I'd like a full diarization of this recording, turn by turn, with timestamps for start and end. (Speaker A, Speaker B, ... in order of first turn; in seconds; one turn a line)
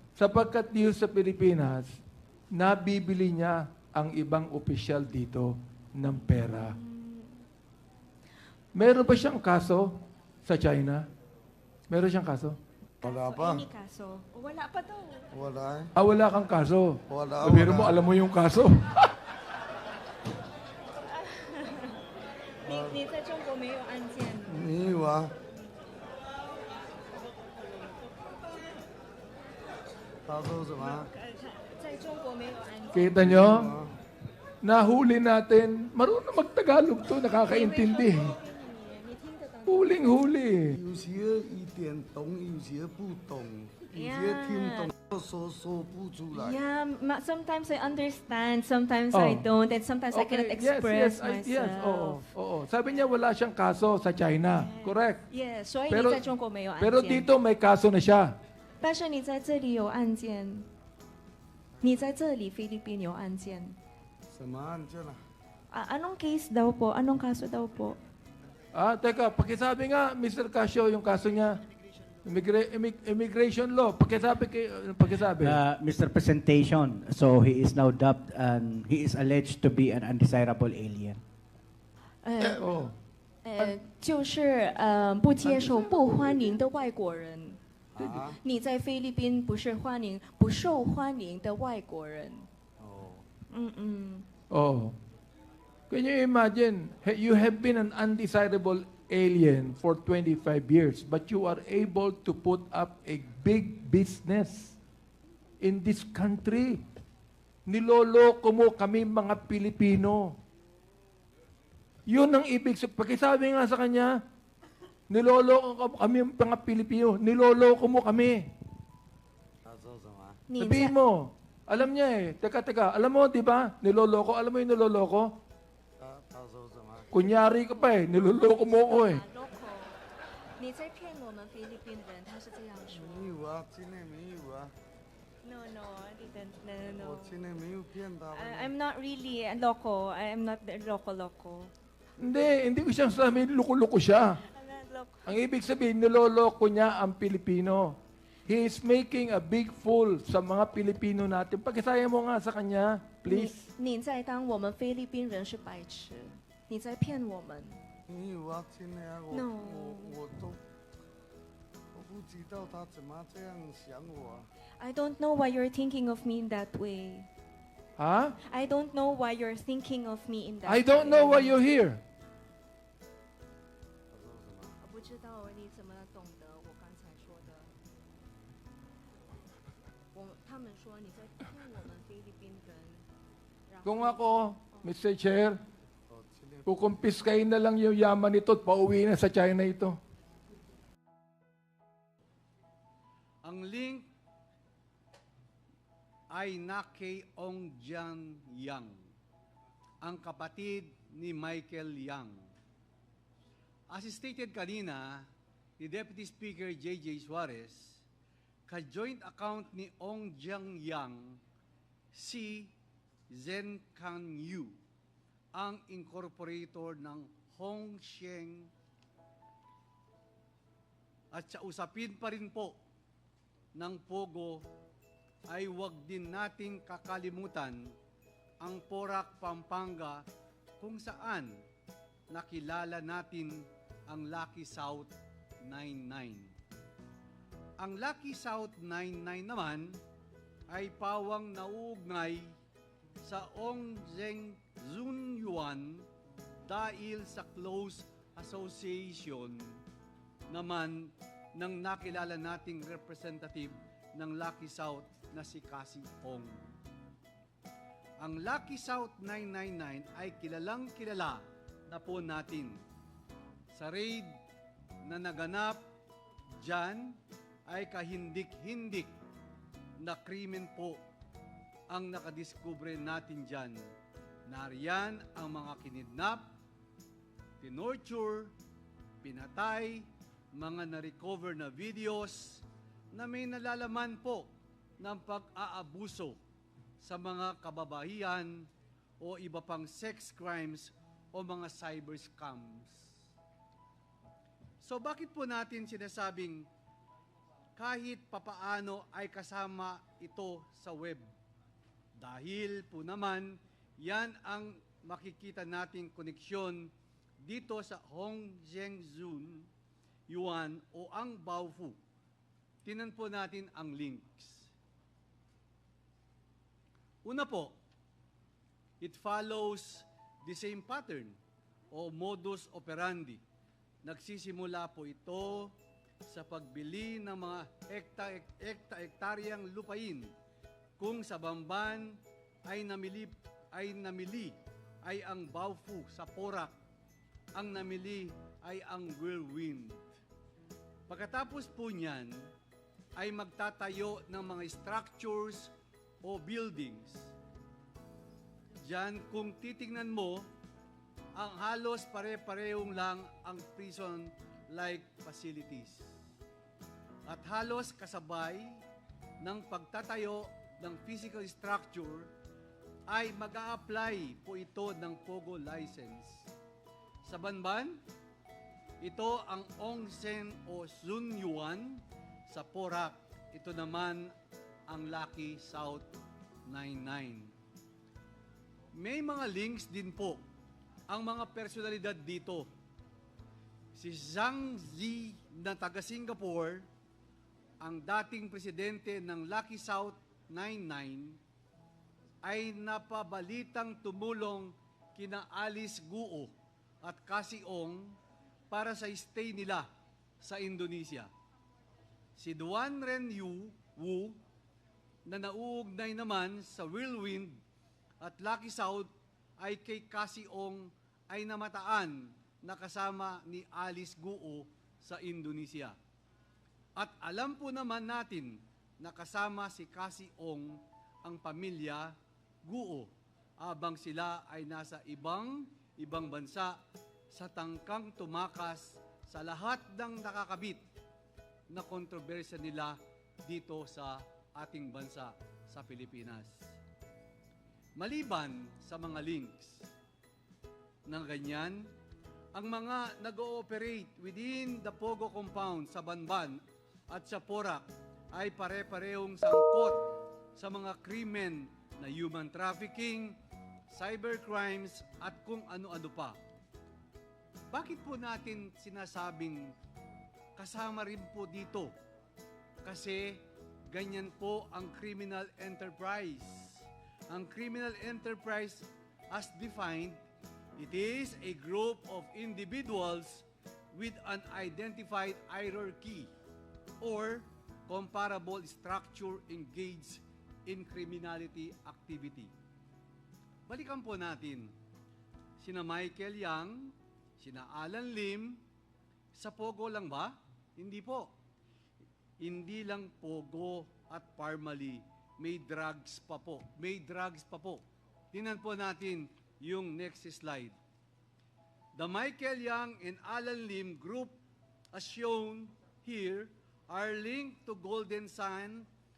Speaker A: 0.2-2.0
Speaker A: 2.5-6.8
Speaker B: 6.5-7.5
Speaker A: 8.8-11.1
Speaker A: 11.9-12.6
Speaker C: 13.0-13.7
Speaker B: 13.0-15.3
Speaker C: 15.3-15.9
Speaker A: 15.9-19.1
Speaker C: 17.1-18.0
Speaker B: 21.1-22.0
Speaker B: 22.6-24.7
Speaker C: 22.6-23.0
Speaker C: 24.5-25.3
Speaker C: 30.3-31.1
Speaker B: 30.8-33.2
Speaker A: 32.9-33.7
Speaker C: 33.2-33.9
Speaker A: 34.6-38.4
Speaker B: 37.5-40.3
Speaker A: 39.7-40.8
Speaker C: 40.7-46.6
Speaker B: 43.9-44.9
Speaker B: 46.3-52.3
Speaker A: 49.1-49.5
Speaker A: 50.1-55.2
Speaker B: 54.5-57.3
Speaker A: 55.9-56.3
Speaker A: 56.8-58.4
Speaker B: 58.8-60.7
Speaker B: 61.8-63.8
Speaker C: 64.3-65.2
Speaker B: 65.7-68.0
Speaker A: 68.7-71.6
Speaker A: 72.2-75.6
Speaker D: 75.4-81.2
Speaker B: 82.2-82.7
Speaker A: 82.6-83.0
Speaker B: 83.4-87.6
Speaker C: 85.4-86.2
Speaker C: 87.9-88.4
Speaker A: 88.0-88.2
Speaker B: 88.4-92.5
Speaker C: 92.8-93.3
Speaker B: 93.5-94.3
Speaker A: 94.5-95.0
Speaker A: 95.9-104.8
Speaker A: 105.6-106.8
Speaker A: 107.7-110.4
Speaker A: 112.1-114.2
Speaker A: 115.1-118.5
Speaker C: 119.6-120.4
Speaker B: 120.5-121.0
Speaker A: 120.6-125.4
Speaker C: 126.0-127.1
Speaker A: 127.1-129.2
Speaker B: 127.5-133.3
Speaker C: 132.9-134.7
Speaker B: 135.4-137.4
Speaker C: 137.0-138.7
Speaker B: 138.3-141.7
Speaker A: 142.2-144.4
Speaker B: 144.4-145.3
Speaker A: 145.2-153.7
Speaker B: 153.2-157.8
Speaker C: 158.1-160.6
Speaker B: 159.3-160.2
Speaker C: 161.9-164.5
Speaker B: 164.8-167.3
Speaker A: 168.0-168.4
Speaker B: 168.4-171.6
Speaker A: 170.7-172.0
Speaker C: 174.1-174.8
Speaker B: 174.8-177.7
Speaker B: 180.1-183.1
Speaker B: 183.7-184.9
Speaker A: 183.8-185.6
Speaker C: 186.1-186.7
Speaker A: 186.7-190.0
Speaker E: 193.4-194.1
Speaker E: 196.3-199.0
Speaker E: 200.0-202.5
Speaker E: 203.9-205.3
Speaker E: 205.8-208.0
Speaker E: 208.7-211.4
Speaker E: 212.1-212.7
Speaker E: 213.3-214.8
Speaker E: 215.6-218.7
Speaker E: 221.3-222.8
Speaker E: 223.8-224.6
Speaker E: 225.5-227.9
Speaker E: 228.6-230.2
Speaker E: 230.8-231.6
Speaker E: 232.3-236.5
Speaker E: 237.8-240.0
Speaker E: 240.7-242.6
Speaker E: 243.2-246.1
Speaker E: 246.6-249.8
Speaker E: 250.5-256.7
Speaker E: 258.2-262.8
Speaker E: 263.7-264.4
Speaker E: 265.1-265.8
Speaker E: 266.6-269.2
Speaker E: 270.0-271.0
Speaker E: 271.9-273.8
Speaker E: 274.5-276.5
Speaker E: 277.6-278.5
Speaker E: 279.2-286.4
Speaker E: 287.0-288.7
Speaker E: 289.2-293.2
Speaker E: 294.8-296.7
Speaker E: 297.8-301.3
Speaker E: 302.2-306.9
Speaker E: 307.4-309.7
Speaker E: 310.3-312.0
Speaker E: 312.9-314.7
Speaker E: 317.2-317.8
Speaker E: 319.0-321.4
Speaker E: 321.9-323.4
Speaker E: 324.0-325.7
Speaker E: 326.3-330.3
Speaker E: 331.0-336.8
Speaker E: 337.6-340.0
Speaker E: 341.1-342.5
Speaker E: 343.2-345.7
Speaker E: 346.2-347.3
Speaker E: 348.8-350.5
Speaker E: 351.4-356.2
Speaker E: 357.3-358.8
Speaker E: 359.4-362.3
Speaker E: 363.1-366.5
Speaker E: 367.2-368.0
Speaker E: 369.0-374.3
Speaker E: 374.9-376.1
Speaker E: 376.7-377.5
Speaker E: 378.9-380.4
Speaker E: 381.1-382.7
Speaker E: 383.9-386.9
Speaker E: 387.8-391.4
Speaker E: 392.4-398.2
Speaker E: 398.7-399.9
Speaker E: 400.4-401.3
Speaker E: 402.4-404.4
Speaker E: 405.3-407.6
Speaker E: 408.2-416.0
Speaker E: 417.0-426.8
Speaker E: 427.3-430.8
Speaker E: 431.7-436.8
Speaker E: 438.0-439.9
Speaker E: 441.1-441.9
Speaker E: 442.6-450.0
Speaker E: 450.6-453.4
Speaker E: 453.9-456.4
Speaker E: 457.7-459.7
Speaker E: 460.6-461.9
Speaker E: 462.9-470.2
Speaker E: 470.8-476.3
Speaker E: 477.0-482.5
Speaker E: 483.7-484.7
Speaker E: 485.6-488.6
Speaker E: 489.4-491.3
Speaker E: 492.4-500.8
Speaker E: 502.0-504.4
Speaker E: 504.9-508.9